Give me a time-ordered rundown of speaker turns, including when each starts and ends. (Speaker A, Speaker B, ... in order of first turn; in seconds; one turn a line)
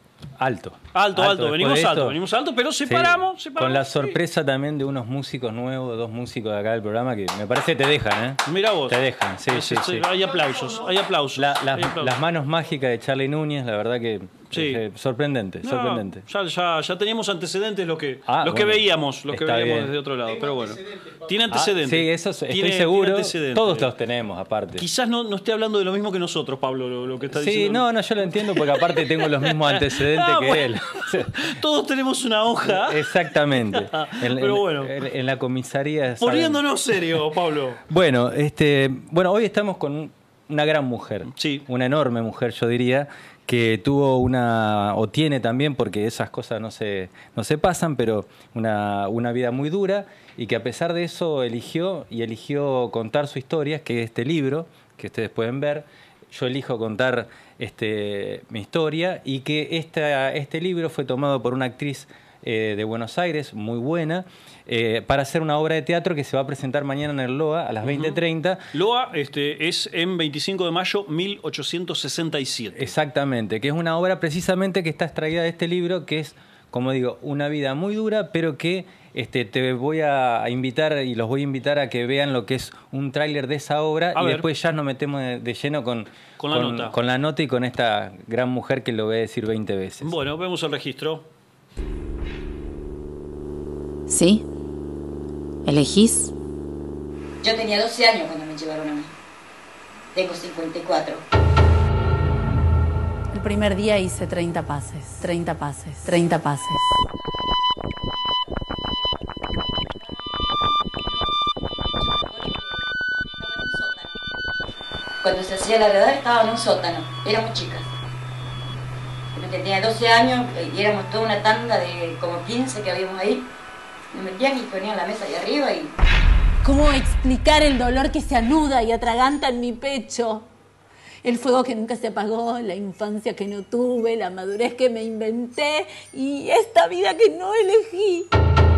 Speaker A: 0.4-2.2
Speaker B: 0.9-4.2
Speaker A: 2.8-10.1
Speaker B: 8.4-12.2
Speaker A: 11.3-16.2
Speaker B: 14.5-14.8
Speaker B: 15.6-23.9
Speaker A: 18.3-19.9
Speaker A: 21.5-24.9
Speaker B: 24.8-34.9
Speaker A: 27.3-31.4
Speaker A: 32.6-36.6
Speaker B: 36.2-37.8
Speaker A: 37.9-68.7
Speaker B: 41.3-41.6
Speaker B: 67.8-68.2
Speaker B: 68.7-72.9
Speaker A: 72.7-90.1
Speaker B: 84.1-84.5
Speaker B: 86.4-87.0
Speaker B: 90.0-91.3
Speaker C: 94.1-94.4
Speaker C: 95.7-96.3
Speaker D: 97.4-99.1
Speaker D: 100.1-101.2
Speaker C: 103.3-106.9
Speaker D: 107.1-114.4
Speaker D: 115.2-117.9
Speaker D: 119.3-123.5
Speaker D: 124.1-125.9
Speaker C: 126.6-130.5
Speaker C: 131.2-138.3